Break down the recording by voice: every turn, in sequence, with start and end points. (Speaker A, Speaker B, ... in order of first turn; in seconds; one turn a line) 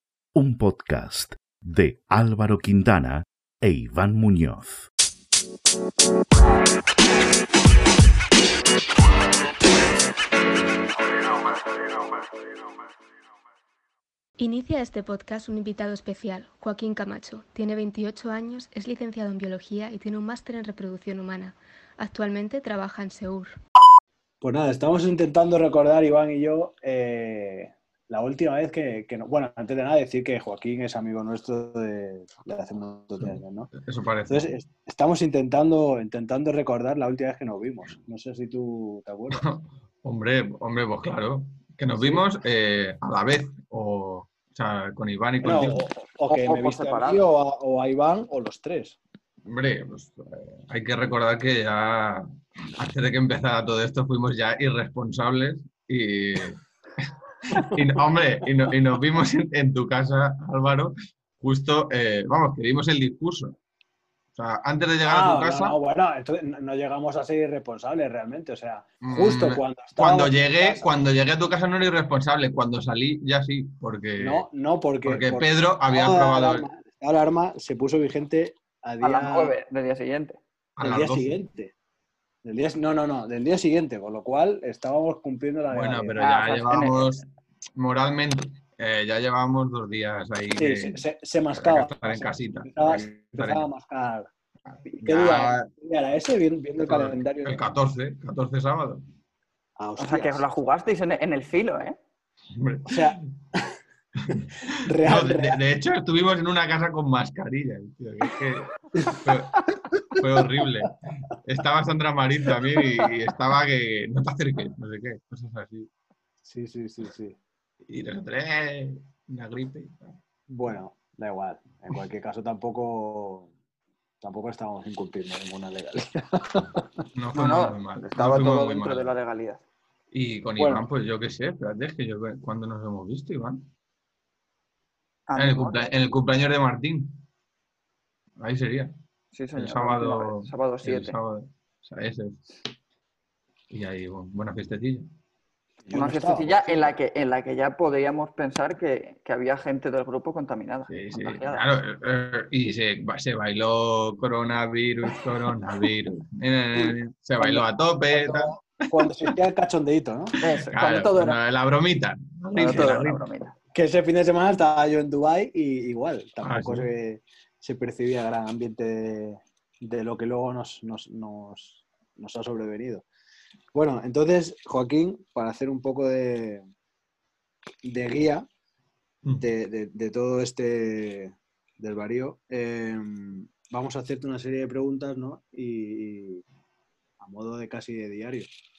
Speaker A: 0.3-4.9
Speaker B: 14.4-23.6
Speaker C: 24.4-33.7
Speaker D: 33.2-34.5
Speaker C: 34.3-39.5
Speaker D: 39.3-45.8
Speaker C: 42.0-42.2
Speaker C: 45.4-49.0
Speaker E: 46.3-47.2
Speaker D: 49.5-63.6
Speaker C: 57.5-57.8
Speaker D: 64.3-65.8
Speaker C: 65.0-70.9
Speaker D: 69.0-74.5
Speaker C: 74.2-79.5
Speaker D: 75.0-76.7
Speaker E: 79.0-80.4
Speaker D: 80.8-81.4
Speaker C: 80.8-81.7
Speaker C: 82.4-86.2
Speaker D: 85.7-87.2
Speaker E: 86.2-87.2
Speaker D: 87.8-93.6
Speaker C: 90.6-94.3
Speaker D: 94.7-95.7
Speaker C: 94.9-97.6
Speaker D: 96.8-99.0
Speaker C: 99.8-100.4
Speaker E: 100.0-102.0
Speaker D: 102.5-103.2
Speaker C: 102.9-103.7
Speaker D: 104.2-115.9
Speaker C: 104.7-105.6
Speaker C: 108.9-109.3
Speaker C: 116.4-117.3
Speaker D: 117.8-120.2
Speaker C: 120.5-123.5
Speaker C: 124.2-127.0
Speaker D: 127.1-129.1
Speaker E: 127.3-129.6
Speaker D: 130.1-133.7
Speaker C: 130.6-130.9
Speaker E: 135.3-135.9
Speaker D: 135.3-137.2
Speaker D: 138.4-138.9
Speaker E: 139.3-141.2
Speaker D: 139.5-142.4
Speaker D: 143.7-145.1
Speaker C: 145.8-146.9
Speaker E: 145.9-151.6
Speaker D: 150.9-159.3
Speaker C: 158.2-160.3
Speaker E: 160.4-161.4
Speaker D: 160.6-163.2
Speaker E: 162.5-163.5
Speaker C: 163.7-173.0
Speaker D: 166.4-166.9
Speaker C: 173.7-176.6
Speaker C: 177.8-178.5
Speaker C: 179.4-186.4
Speaker C: 187.2-188.5